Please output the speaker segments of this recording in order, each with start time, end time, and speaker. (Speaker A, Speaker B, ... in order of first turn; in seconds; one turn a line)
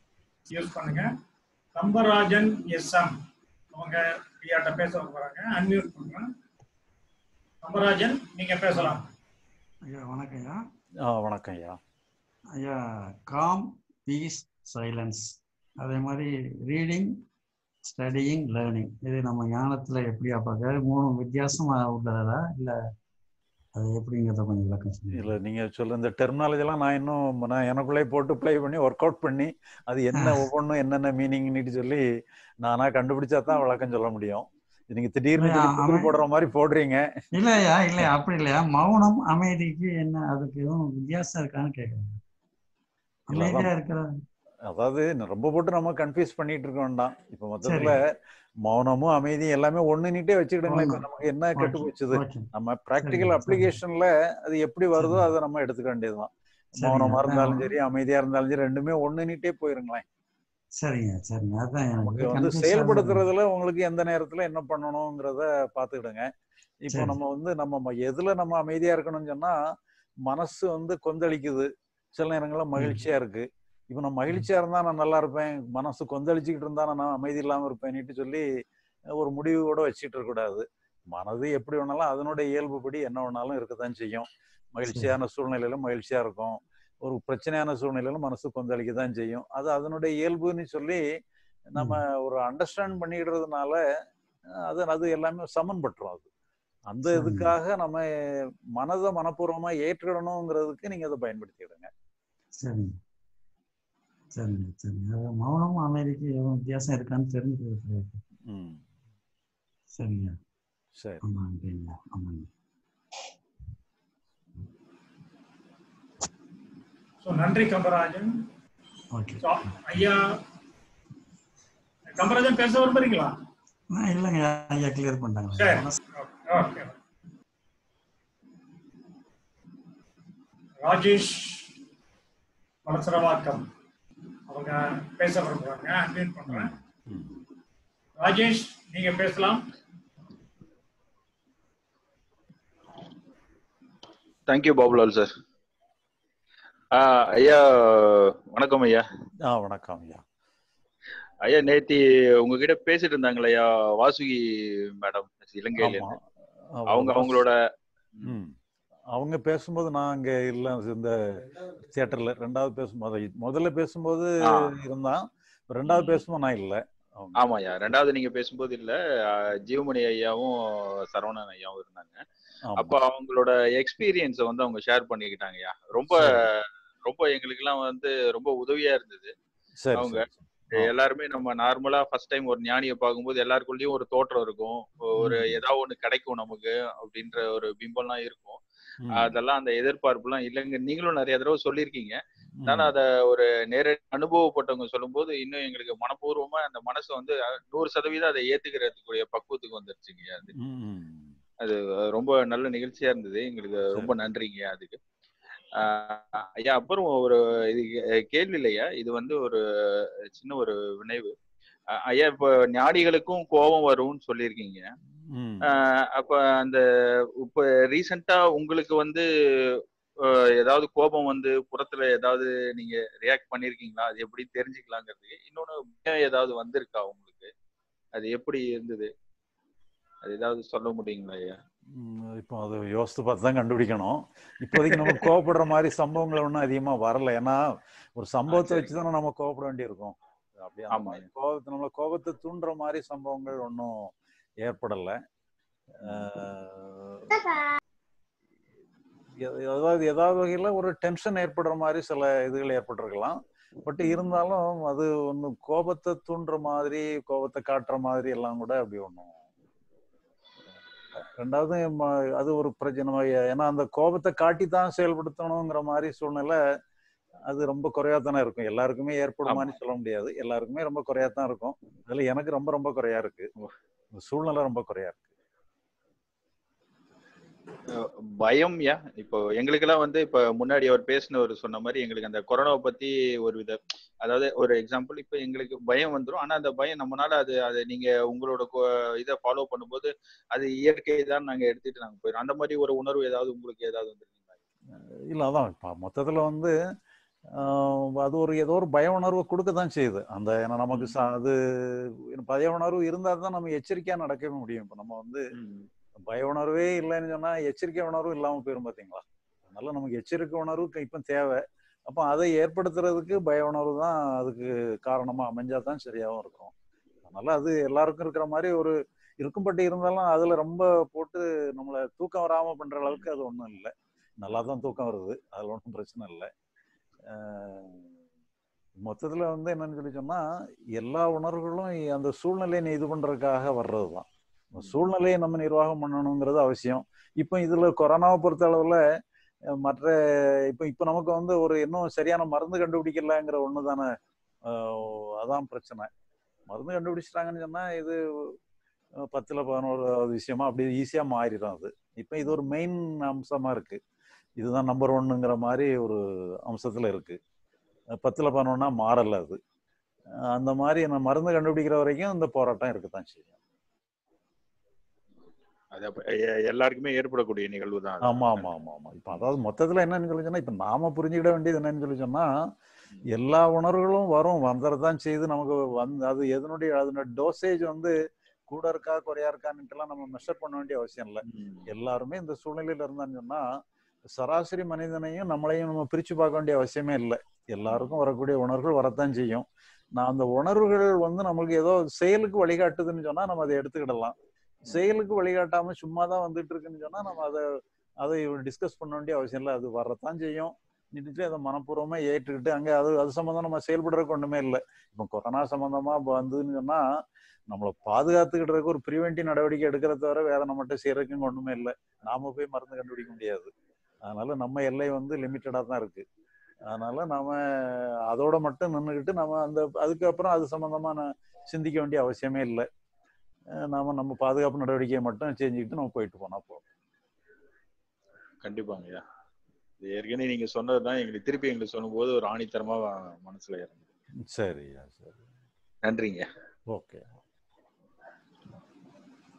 Speaker A: 0.5-1.1
Speaker A: 1.8-3.1
Speaker A: 3.7-6.2
Speaker A: 7.6-9.0
Speaker B: 8.7-9.0
Speaker B: 9.9-10.6
Speaker C: 11.1-11.8
Speaker B: 12.6-17.1
Speaker B: 17.8-22.7
Speaker B: 23.7-25.3
Speaker C: 25.1-32.0
Speaker B: 30.1-30.4
Speaker C: 32.6-37.0
Speaker B: 35.4-36.1
Speaker B: 37.4-42.1
Speaker B: 43.3-44.0
Speaker C: 43.3-43.7
Speaker C: 44.7-48.0
Speaker B: 47.6-48.0
Speaker C: 48.6-56.3
Speaker B: 50.7-51.0
Speaker B: 51.6-52.5
Speaker B: 53.0-53.8
Speaker B: 55.0-55.3
Speaker B: 56.8-57.7
Speaker C: 56.8-60.0
Speaker B: 60.8-63.2
Speaker C: 62.0-66.2
Speaker C: 66.8-69.5
Speaker B: 66.9-67.2
Speaker C: 70.3-78.4
Speaker B: 72.8-73.0
Speaker C: 79.2-91.0
Speaker B: 84.8-85.1
Speaker C: 91.7-93.8
Speaker C: 94.7-96.3
Speaker C: 96.9-98.0
Speaker B: 97.1-97.5
Speaker C: 98.8-101.9
Speaker B: 102.6-102.9
Speaker B: 104.3-108.2
Speaker C: 108.5-108.8
Speaker B: 109.9-110.3
Speaker C: 110.9-111.2
Speaker B: 111.2-112.5
Speaker A: 117.2-118.3
Speaker B: 119.1-120.0
Speaker A: 119.4-120.2
Speaker A: 122.1-123.3
Speaker B: 123.9-126.0
Speaker A: 125.6-126.9
Speaker A: 130.8-131.7
Speaker A: 132.8-133.6
Speaker A: 134.5-136.7
Speaker C: 136.5-137.4
Speaker A: 138.2-139.6
Speaker D: 144.5-145.3
Speaker D: 146.9-149.0
Speaker C: 149.5-150.2
Speaker D: 151.4-154.4
Speaker D: 155.0-156.2
Speaker C: 155.8-156.2
Speaker C: 156.8-157.4
Speaker D: 156.9-157.5
Speaker C: 158.2-158.5
Speaker C: 159.1-161.1
Speaker C: 161.8-167.9
Speaker D: 164.4-164.7
Speaker D: 165.8-166.2
Speaker D: 167.4-168.9
Speaker D: 169.6-170.5
Speaker D: 171.1-172.2
Speaker C: 172.7-173.0
Speaker D: 172.8-179.3
Speaker C: 176.1-176.4
Speaker C: 179.8-180.9
Speaker D: 179.9-200.5
Speaker C: 185.2-185.6
Speaker C: 189.0-189.4
Speaker C: 192.6-192.9
Speaker C: 200.6-201.3
Speaker D: 201.6-205.0
Speaker D: 205.8-211.3
Speaker D: 212.0-214.9
Speaker C: 215.3-215.7
Speaker D: 215.7-216.8
Speaker D: 217.4-219.2
Speaker D: 220.3-227.5
Speaker D: 228.2-229.1
Speaker D: 230.2-231.6
Speaker C: 232.0-237.6
Speaker D: 234.8-235.2
Speaker C: 238.2-243.9
Speaker D: 238.5-239.0
Speaker D: 240.9-241.2
Speaker C: 244.6-245.2
Speaker C: 246.0-247.3
Speaker C: 249.4-259.3
Speaker D: 254.0-254.4
Speaker C: 261.4-266.6
Speaker C: 267.5-273.5
Speaker D: 269.4-269.8
Speaker C: 274.2-275.2
Speaker D: 278.0-294.3
Speaker C: 295.3-296.7
Speaker C: 297.6-305.4
Speaker D: 300.9-301.2
Speaker D: 305.5-305.9
Speaker C: 306.3-316.7
Speaker C: 317.2-326.5
Speaker C: 327.3-328.1
Speaker C: 329.0-330.4
Speaker C: 331.0-339.0
Speaker C: 339.8-340.1
Speaker C: 340.7-344.1
Speaker C: 344.7-346.1
Speaker C: 346.7-348.2
Speaker C: 349.3-354.0
Speaker C: 354.6-357.4
Speaker C: 358.2-359.6
Speaker C: 360.5-363.5
Speaker D: 365.9-368.7
Speaker C: 368.2-372.4
Speaker C: 373.3-378.1
Speaker C: 378.7-383.6
Speaker D: 381.5-381.9
Speaker C: 384.4-389.6
Speaker D: 387.9-388.2
Speaker C: 390.2-394.3
Speaker D: 394.9-395.1
Speaker C: 394.9-397.6
Speaker C: 398.2-407.0
Speaker C: 407.7-413.7
Speaker C: 414.2-416.2
Speaker C: 416.9-422.8
Speaker C: 423.9-426.8
Speaker D: 428.6-429.2
Speaker D: 430.0-434.0
Speaker C: 434.5-435.4
Speaker D: 436.0-436.4
Speaker C: 436.9-437.2